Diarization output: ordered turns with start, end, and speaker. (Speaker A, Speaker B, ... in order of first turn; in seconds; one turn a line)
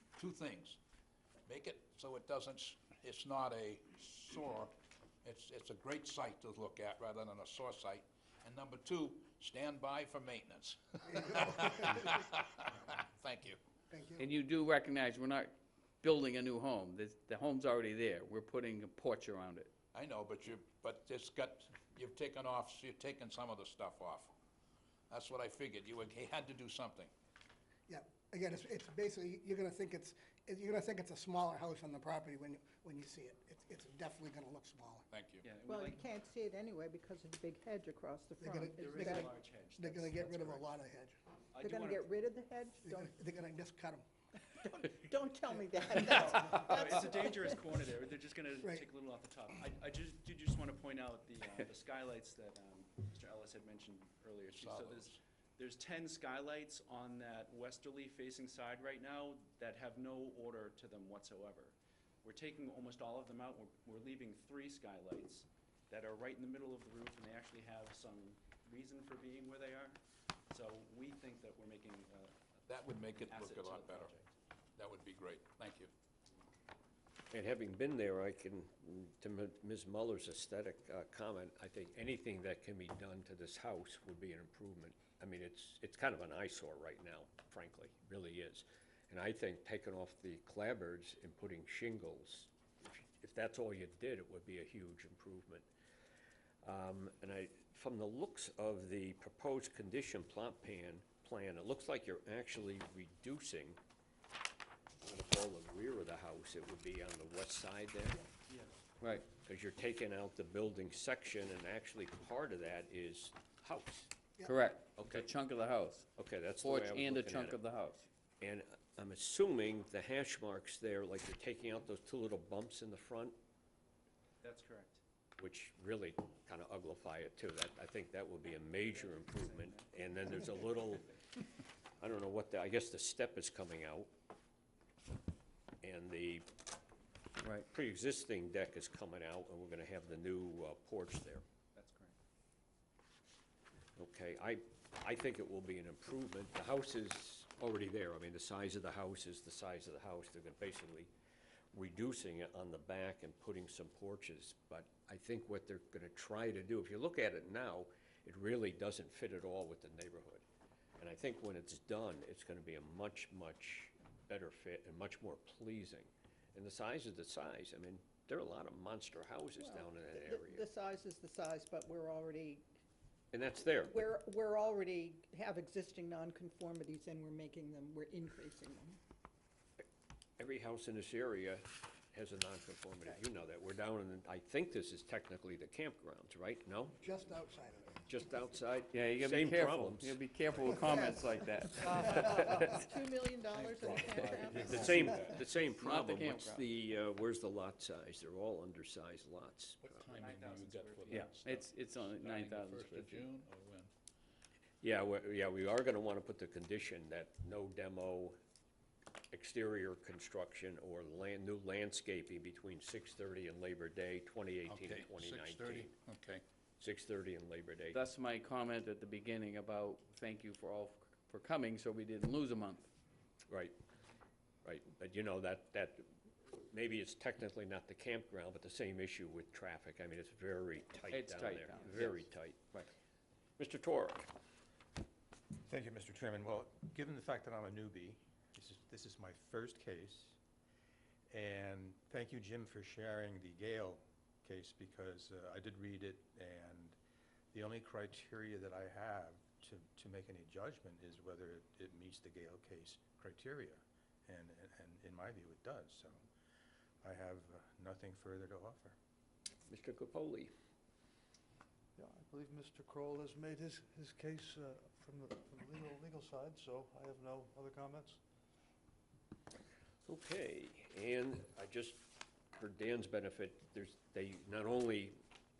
Speaker A: 0.1-0.8
Speaker A: 1.5-4.7
Speaker A: 5.2-13.6
Speaker B: 13.9-14.2
Speaker C: 14.2-15.5
Speaker C: 16.0-19.7
Speaker A: 19.9-24.3
Speaker A: 25.1-27.1
Speaker B: 27.9-35.0
Speaker A: 35.1-35.5
Speaker D: 35.4-36.1
Speaker E: 35.6-39.3
Speaker B: 38.4-41.1
Speaker D: 38.8-40.7
Speaker D: 41.5-42.1
Speaker E: 41.6-43.1
Speaker B: 42.8-44.0
Speaker E: 44.4-47.6
Speaker D: 46.1-74.3
Speaker A: 54.5-55.2
Speaker A: 72.7-74.1
Speaker A: 74.8-75.9
Speaker F: 77.3-95.7
Speaker F: 96.6-103.8
Speaker F: 105.0-108.2
Speaker D: 108.5-108.8
Speaker C: 109.0-109.3
Speaker F: 109.3-114.1
Speaker C: 114.4-116.1
Speaker F: 114.9-115.3
Speaker F: 116.1-117.6
Speaker C: 116.6-118.1
Speaker F: 118.4-123.4
Speaker D: 124.4-125.0
Speaker F: 125.4-131.2
Speaker D: 128.6-131.1
Speaker F: 132.0-134.1
Speaker F: 135.8-136.4
Speaker F: 137.7-141.4
Speaker D: 141.7-142.1
Speaker F: 144.0-151.1
Speaker F: 151.7-160.4
Speaker F: 161.0-170.7
Speaker E: 169.6-172.7
Speaker F: 173.3-174.0
Speaker E: 173.8-179.0
Speaker F: 180.4-187.0
Speaker B: 187.0-188.0
Speaker F: 188.0-190.2
Speaker C: 188.9-192.8
Speaker E: 190.7-191.3
Speaker E: 191.8-195.5
Speaker A: 193.5-195.4
Speaker F: 194.8-200.2
Speaker C: 195.7-196.7
Speaker A: 199.8-203.9
Speaker D: 200.2-201.4
Speaker C: 201.1-203.3
Speaker F: 204.8-208.4
Speaker F: 209.3-216.0
Speaker A: 214.6-216.4
Speaker F: 216.8-218.0
Speaker C: 217.9-222.9
Speaker F: 223.5-223.7
Speaker F: 224.6-226.0
Speaker F: 226.5-232.7
Speaker C: 231.1-232.9
Speaker F: 233.6-234.3
Speaker G: 235.7-240.4
Speaker G: 241.3-246.9
Speaker G: 247.5-256.2
Speaker G: 257.0-258.9
Speaker F: 259.7-260.5
Speaker H: 261.9-268.2
Speaker F: 270.0-275.1